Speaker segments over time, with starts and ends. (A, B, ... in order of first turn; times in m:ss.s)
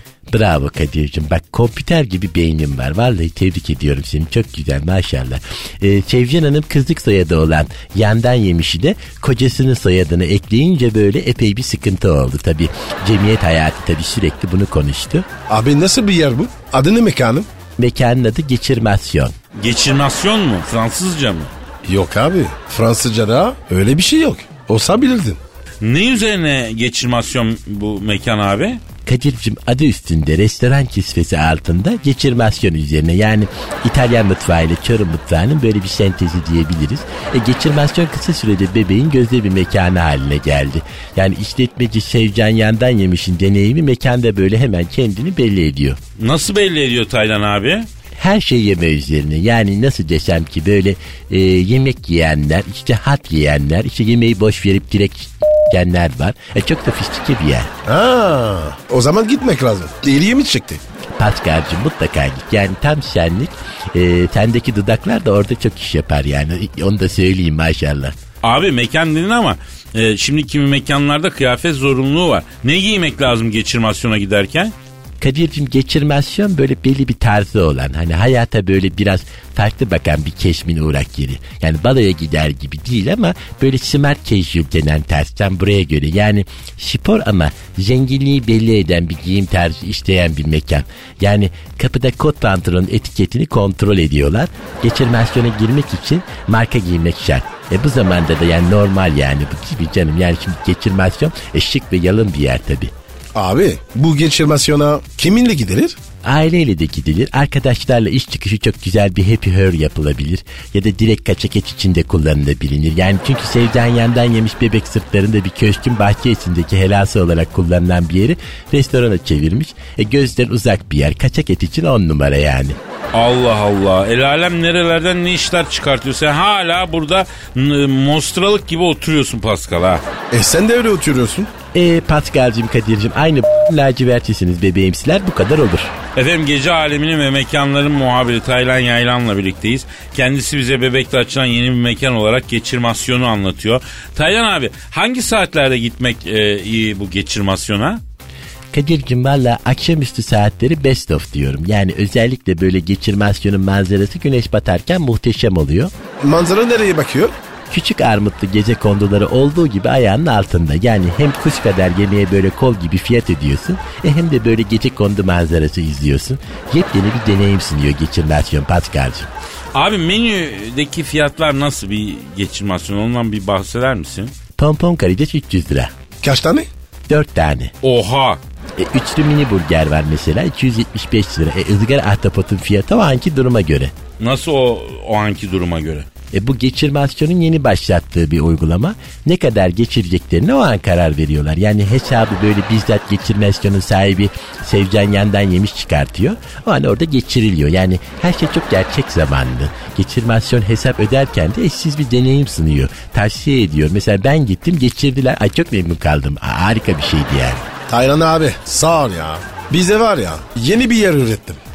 0:00.3-0:15.3 A
0:15.5-0:17.5 B
0:17.8-0:19.3 A
0:19.6-0:21.5 C
0:21.8-0:25.4 B
0:25.8-0:28.8 C
0:29.0-0:46.0 A
0:46.2-0:47.9 C
0:48.2-0:57.7 A
0:57.8-1:00.8 B
1:01.2-1:08.1 A
1:08.4-1:14.7 C
1:15.2-1:42.9 A
1:43.3-1:46.0 B
1:46.2-2:02.8 A
2:03.1-2:10.0 C
2:10.3-2:11.5 B
2:11.7-2:15.9 A
2:16.1-2:28.0 C
2:28.7-2:35.9 A
2:36.2-2:37.3 B
2:37.7-2:49.3 A
2:49.7-2:54.3 C
2:54.6-2:55.9 A
2:56.2-2:56.7 B
2:57.1-2:57.7 A
2:57.8-2:58.4 C
2:58.8-3:03.9 A
3:04.2-3:06.1 C
3:06.3-3:27.6 A
3:27.9-3:31.6 B